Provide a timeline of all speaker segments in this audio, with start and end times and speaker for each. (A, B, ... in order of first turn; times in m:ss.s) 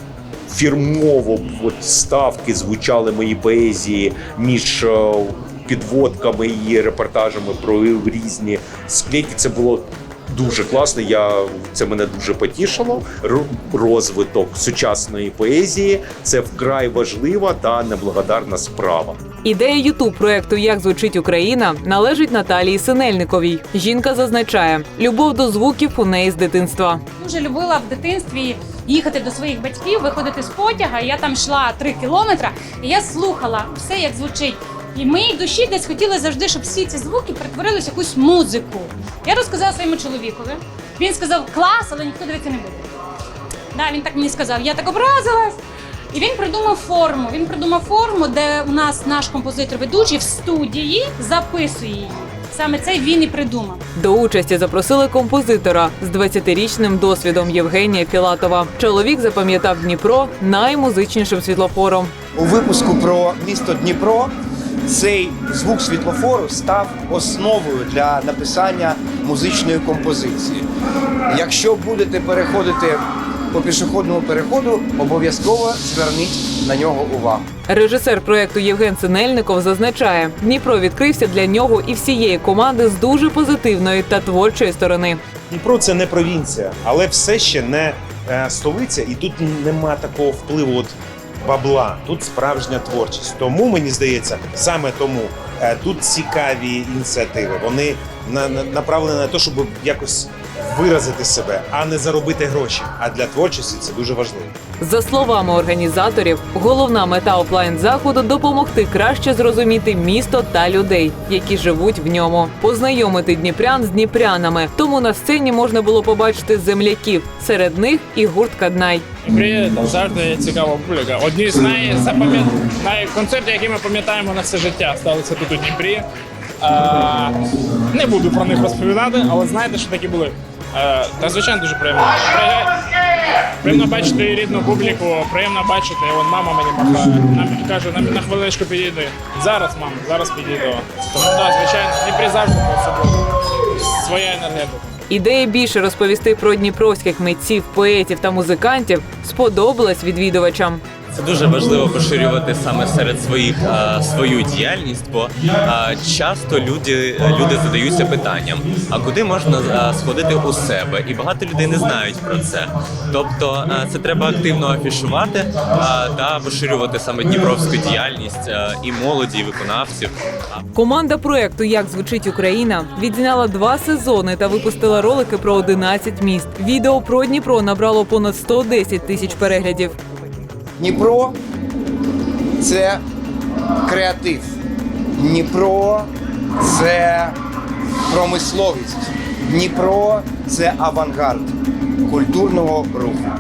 0:00.5-0:19.2 A
0:19.4-0:27.0 B
0:27.2-0:42.9 C
0:43.7-0:45.6 C
0:46.1-0:53.8 C
0:54.0-1:02.1 B
1:02.4-1:04.3 D
1:04.9-1:10.6 D
1:11.3-1:13.0 D
1:13.5-1:17.4 D
1:17.7-1:25.2 B
1:25.5-1:44.5 E
1:44.8-1:59.1 B
1:59.2-2:06.1 F
2:06.6-2:12.8 F
2:13.6-2:24.9 F
2:25.1-2:30.8 B
2:31.1-2:50.1 G
2:50.7-3:00.0 B
3:00.8-3:01.4 D
3:02.6-3:03.0 D
3:03.8-3:04.5 D
3:05.2-3:06.1 D
3:06.6-3:07.4 D
3:08.1-3:11.5 D
3:12.0-3:13.2 D